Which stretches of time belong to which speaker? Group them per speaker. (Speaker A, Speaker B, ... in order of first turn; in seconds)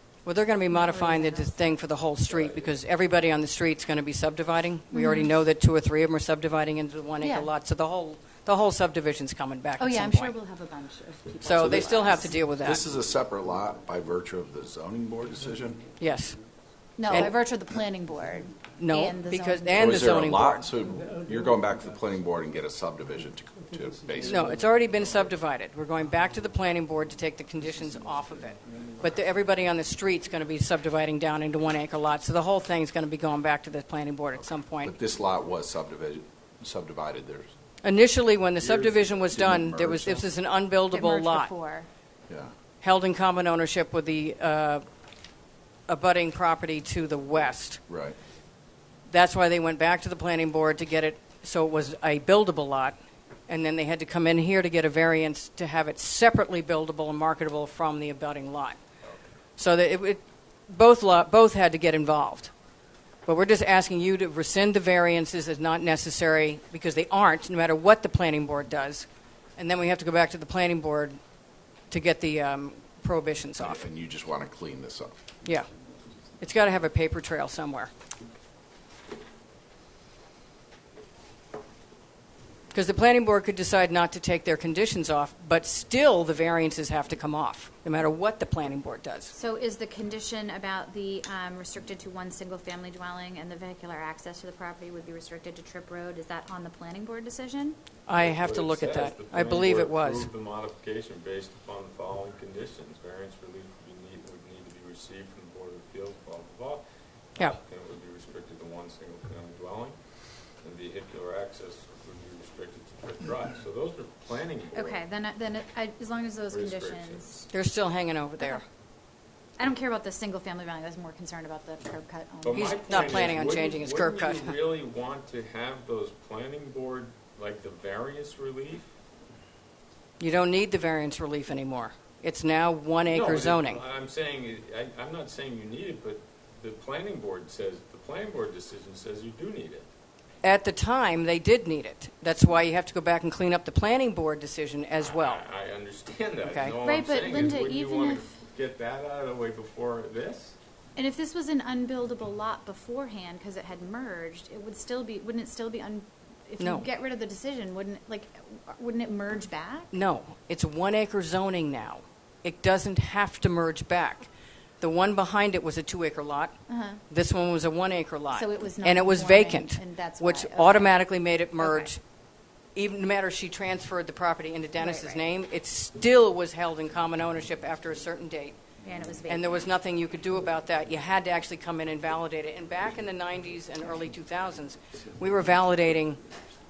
Speaker A: 0.2-10.3, 11.4-12.9, 16.0-16.4, 17.1-17.3, 18.7-20.7, 24.2-35.0, 37.8-41.5, 42.8-44.8, 45.9-47.8, 49.1-53.0, 53.5-58.8, 59.6-62.5, 63.2-71.2, 71.9-73.8, 76.4-77.9, 82.7-89.3, 98.1-100.3, 117.5-118.6, 122.5-124.5, 130.2-133.8, 140.4-145.4, 146.4-146.8, 156.6-156.9, 159.9-164.3, 164.8-166.6, 167.1-172.0, 172.7-178.6, 179.3-186.2
Speaker B: 0.7-1.7, 4.9-5.4, 7.2-7.5, 9.8-12.5, 17.0-20.0, 40.9-41.9, 89.3-97.8, 114.7-117.4, 119.6-123.4, 146.8-148.3, 150.9-159.9, 166.7-167.0, 168.3-171.0, 171.6-171.9, 174.8-175.2, 178.8-179.6
Speaker C: 2.3-2.7, 98.1-106.8, 107.3-110.0, 110.6-115.0, 116.5-117.5, 122.4-128.9, 133.1-139.9, 145.0-150.6
Speaker D: 11.5-15.9, 19.7-24.4, 34.4-37.5, 38.6-40.3, 47.9-48.2, 73.6-75.2